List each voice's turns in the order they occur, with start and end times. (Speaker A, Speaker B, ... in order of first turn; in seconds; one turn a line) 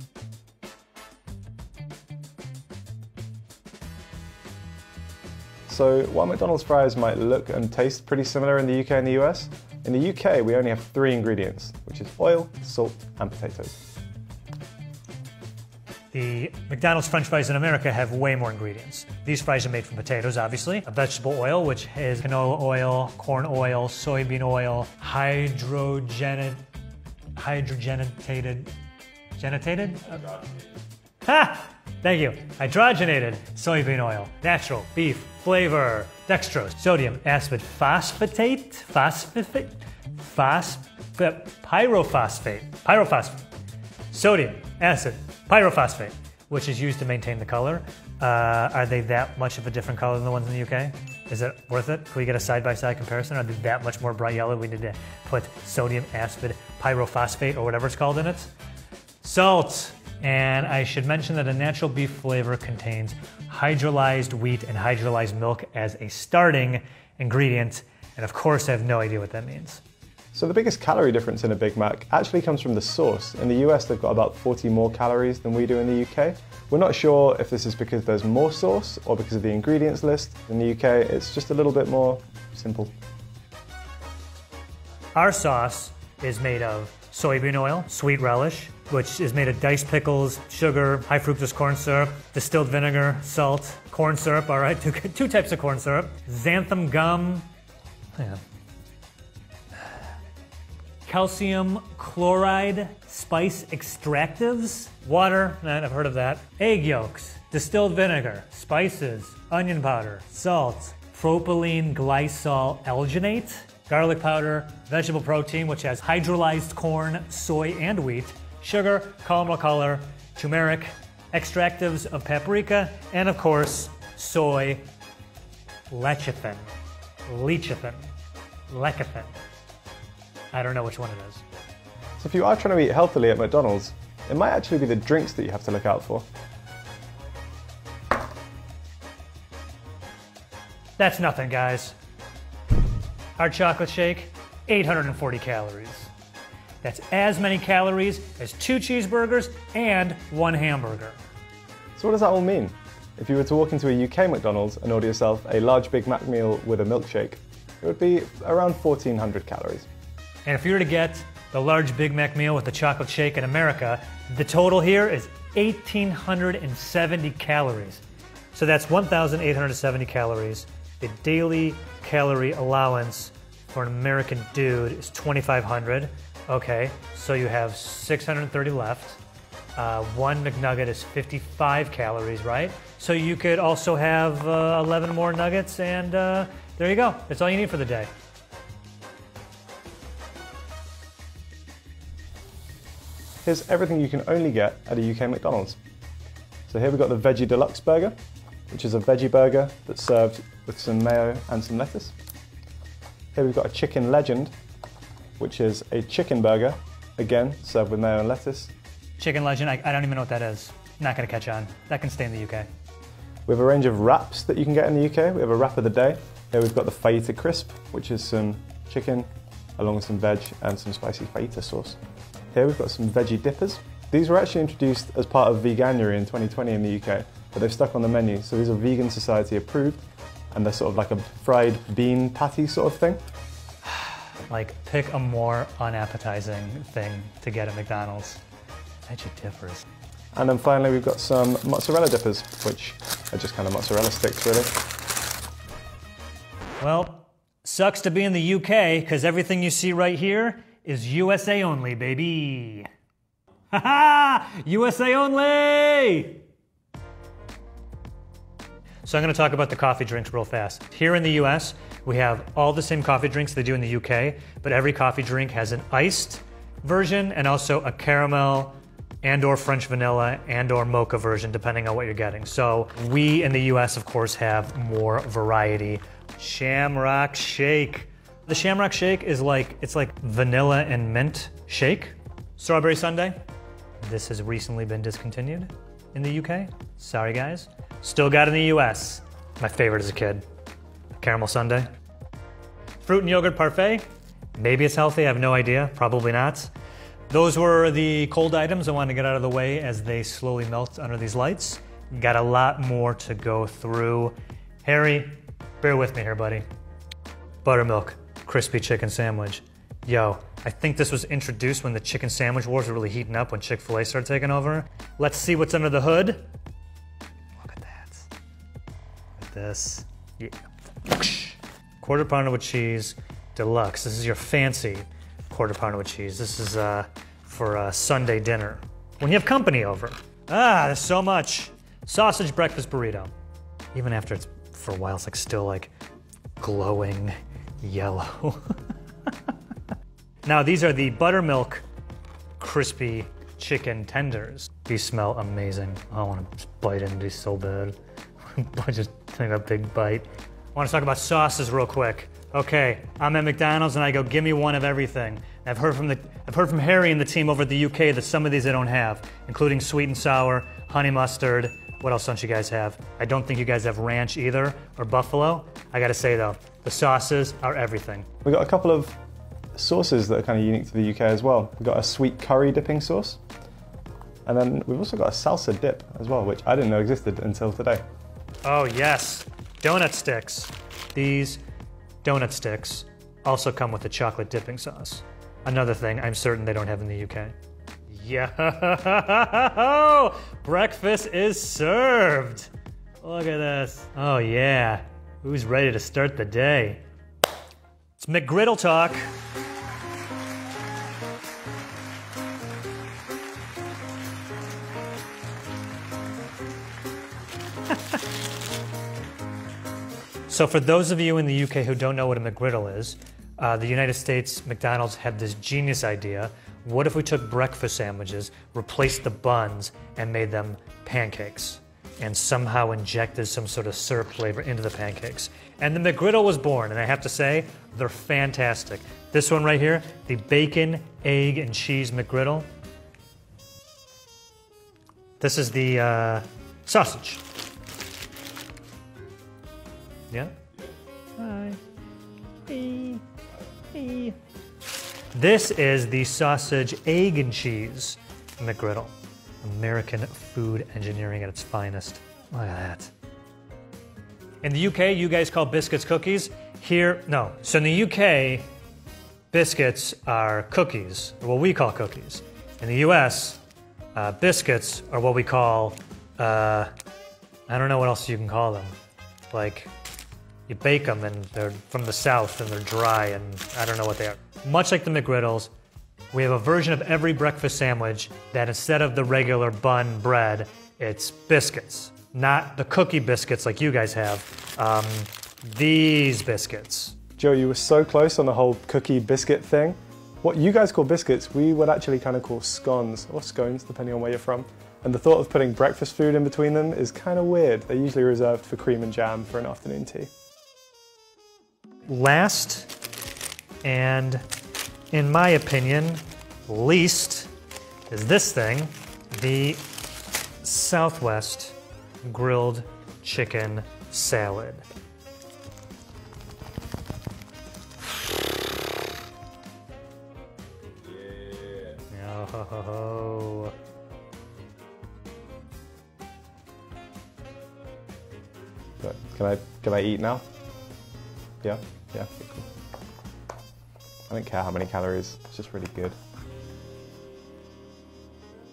Speaker A: 5.7-13.8
Speaker B: 16.1-26.6
Speaker B: 27.4-28.7
Speaker B: 29.4-30.4
Speaker B: 31.2-43.5
Speaker B: 44.1-58.5
Speaker B: 59.2-69.8
Speaker A: 70.3-82.9
Speaker B: 85.1-97.5
Speaker B: 98.2-98.4
Speaker B: 101.0-124.9
Speaker B: 125.9-126.8
Speaker B: 127.3-128.1
Speaker B: 128.7-129.4
Speaker B: 130.5-131.4
Speaker A: 132.2-136.3
Speaker B: 141.0-142.0
Speaker B: 143.4-146.1
Speaker B: 146.8-151.2
Speaker A: 152.0-159.9
Speaker B: 160.5-168.0
Speaker B: 168.5-179.2
Speaker B: 179.8-188.1
Speaker A: 193.4-195.8
Speaker A: 196.7-198.2
Speaker A: 198.7-202.1
Speaker A: 203.3-204.5
Speaker A: 205.4-208.7
Speaker B: 209.2-212.7
Speaker A: 213.5-219.3
Speaker A: 219.8-222.0
Speaker A: 222.5-233.2
Speaker B: 233.9-238.4
Speaker B: 239.1-239.8
Speaker A: 240.3-244.7
Speaker B: 246.8-252.9
Speaker B: 253.7-256.4
Speaker B: 259.0-283.4
Speaker B: 284.0-290.4
Speaker B: 291.2-291.9
Speaker B: 293.0-296.7
Speaker B: 297.3-306.6
Speaker B: 307.6-316.5
Speaker B: 317.6-318.3
Speaker B: 319.4-333.3
Speaker B: 333.9-335.9
Speaker B: 336.6-339.3
Speaker B: 340.4-341.9
Speaker B: 342.6-368.3
Speaker A: 368.4-369.2
Speaker A: 369.8-373.4
Speaker A: 374.5-378.0
Speaker B: 378.6-381.6
Speaker B: 382.2-387.6
Speaker B: 388.1-392.7
Speaker B: 393.2-397.0
Speaker B: 398.2-399.3
Speaker B: 410.5-432.7
Speaker B: 435.4-437.4
Speaker B: 440.3-440.6
Speaker B: 441.4-441.8
Speaker B: 442.7-443.2
Speaker B: 443.9-444.4
Speaker B: 445.3-453.1
Speaker B: 454.6-458.7
Speaker B: 459.5-463.6
Speaker B: 464.1-466.9
Speaker B: 467.7-469.0
Speaker B: 469.5-469.9
Speaker B: 470.7-475.7
Speaker B: 476.3-487.2
Speaker A: 487.4-500.3
Speaker B: 502.1-502.9
Speaker B: 503.8-504.4
Speaker B: 505.1-507.5
Speaker B: 508.1-509.9
Speaker B: 510.6-514.9
Speaker B: 522.1-523.7
Speaker A: 529.0-530.4
Speaker A: 531.6-532.7
Speaker A: 534.3-536.2